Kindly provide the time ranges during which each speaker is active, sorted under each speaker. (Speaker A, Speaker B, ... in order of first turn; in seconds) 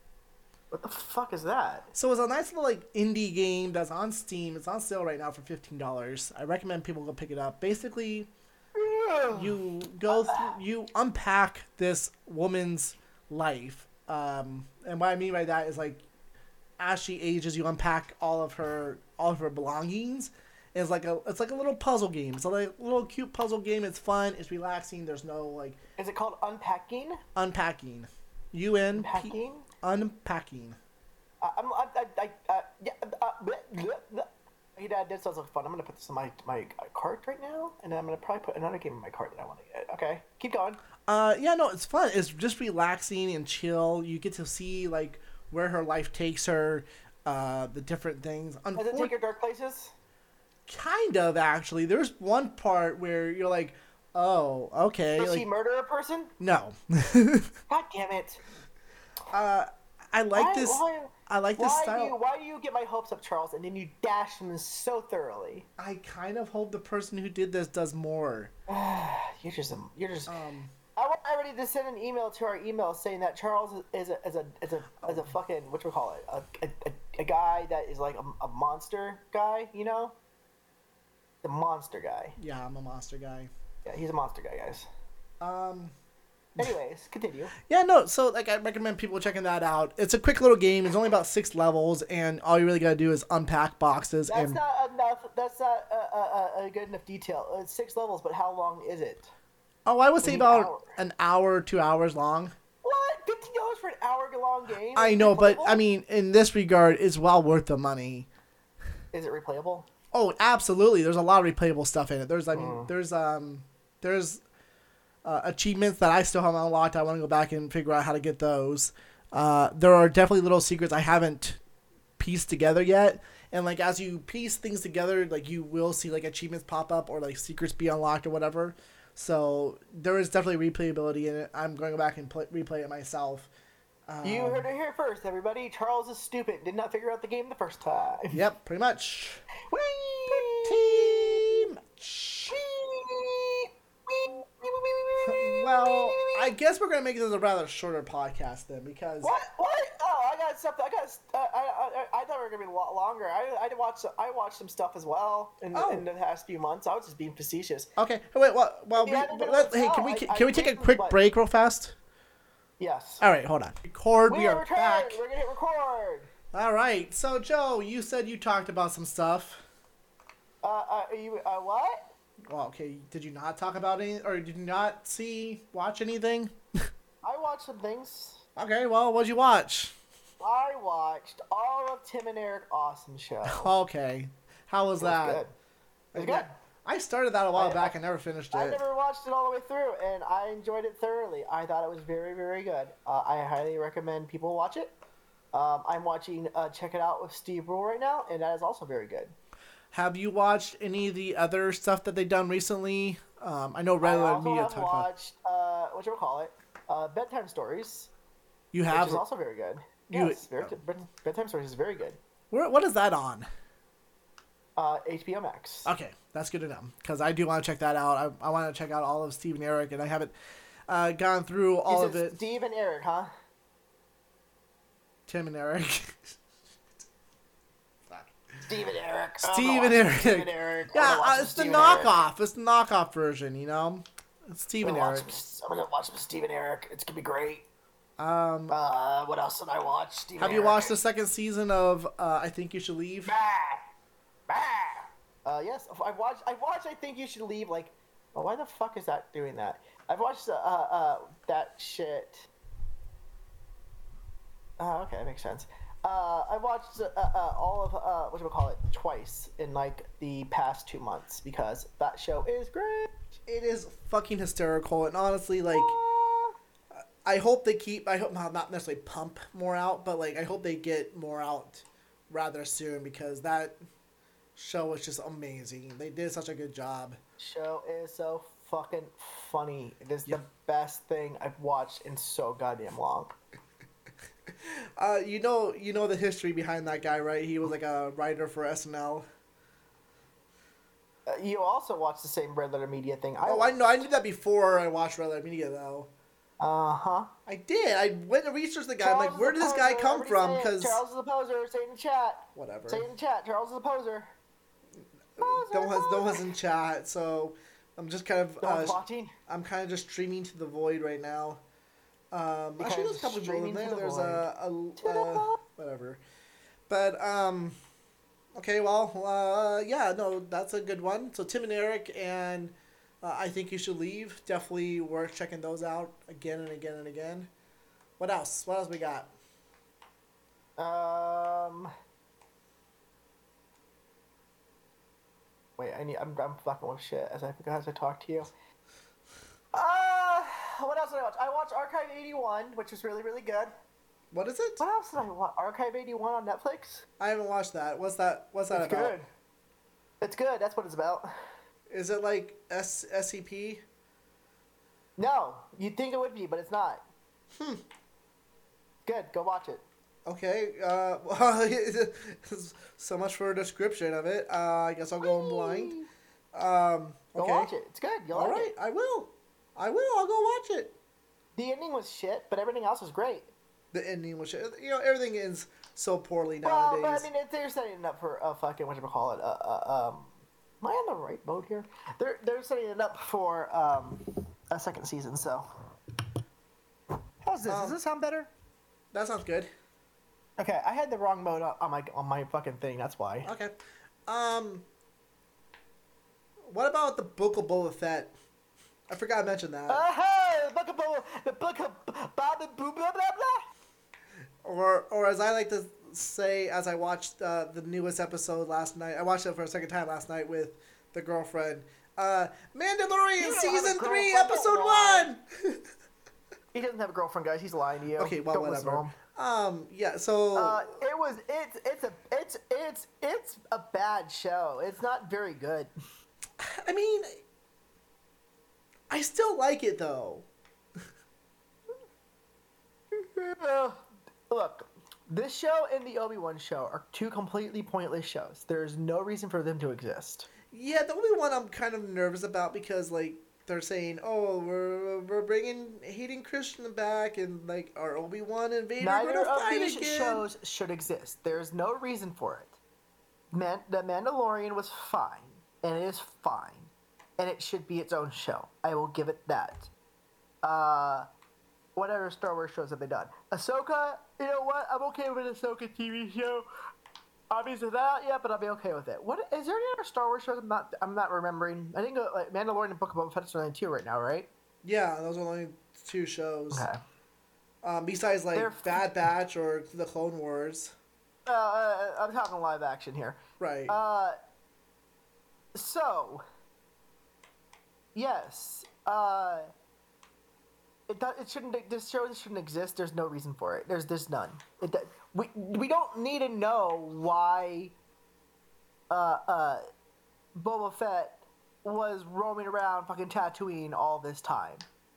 Speaker A: 0.7-1.9, 8.7-9.5, 10.1-10.5, 26.0-27.2, 28.9-29.7, 31.4-40.8, 48.8-49.9, 55.2-56.3, 57.7-58.4, 60.3-65.7, 68.7-70.4, 71.0-80.2, 81.4-82.4, 83.8-84.9, 86.6-87.5, 94.3-99.3, 100.2-101.0, 102.8-105.8, 109.1-109.9, 112.5-112.9, 134.2-138.4, 139.7-141.7, 142.5-146.5, 149.2-157.9, 159.0-161.2, 162.8-163.2, 164.3-166.3, 170.6-172.0, 177.2-178.4, 180.4-183.7, 185.0-185.5, 186.2-186.5, 187.5-187.9, 188.5-195.0, 195.5-199.3, 204.0-208.1, 208.9-212.2, 214.8-215.9, 221.9-223.3, 228.6-232.2, 234.8-237.6, 238.7-240.9, 243.2-243.8, 244.5-252.5, 254.8-263.1, 265.7-266.5, 277.4-283.4, 291.3-294.1, 296.6-297.3, 299.0-304.3, 305.4-306.4, 308.6-309.3, 312.8-314.5, 315.0-315.6, 330.8-331.9, 335.8-338.5, 339.7-343.7, 344.8-347.1, 348.7-349.2, 350.2-351.3, 355.2-357.0, 359.1-359.8, 365.2-366.1, 367.4-368.7, 371.6-373.5, 376.6-385.7, 387.4-388.5, 390.6-393.5, 399.9-403.6, 413.4-415.3, 416.7-419.1, 420.5-425.9, 433.1-440.5, 449.0-452.8, 453.5-459.9, 460.6-461.3, 461.9-466.7, 467.5-474.5, 476.7-477.0, 478.5-479.1, 481.4-484.4, 485.7-486.4, 488.1-489.7, 491.1-497.9, 499.1-499.8, 500.5-504.9
Speaker B: 1.9-8.3, 9.3-16.0, 16.8-25.8, 27.3-30.8, 41.0-49.1, 50.7-55.5, 56.4-57.5, 59.3-62.1, 65.8-68.5, 70.3-70.7, 75.0-75.3, 82.4-83.5, 85.4-85.9, 87.7-94.6, 99.8-102.5, 104.9-108.3, 110.1-114.4, 115.2-121.6, 122.2-133.5, 134.1-134.7, 138.3-139.4, 140.3-142.6, 145.2-149.3, 155.7-156.1, 158.0-161.9, 163.2-165.2, 166.5-169.6, 172.5-176.5, 178.6-179.9, 183.5-185.4, 186.1-188.8, 199.9-205.1, 208.7-209.2, 210.1-210.7, 212.5-213.5, 215.8-220.3, 220.9-222.4, 225.3-226.3, 229.4-235.3, 238.2-238.7, 240.4-243.3, 263.4-266.0, 267.2-273.8, 274.6-277.2, 284.6-289.3, 293.4-296.1, 297.5-301.0, 302.5-303.1, 305.4-311.6, 312.3-316.2, 316.9-317.8, 318.5-327.5, 328.2-329.3, 344.3-344.8, 347.2-349.1, 351.9-353.8, 357.5-357.8, 360.2-365.9, 366.5-367.7, 368.3-370.9, 373.9-377.3, 387.7-388.0, 389.1-389.7, 393.4-393.7, 394.3-394.9, 396.7-398.3, 399.1-400.0, 404.6-415.8, 418.2-420.8, 426.6-427.3, 429.1-430.5, 440.7-450.4, 474.8-476.9, 477.8-480.9, 483.6-483.9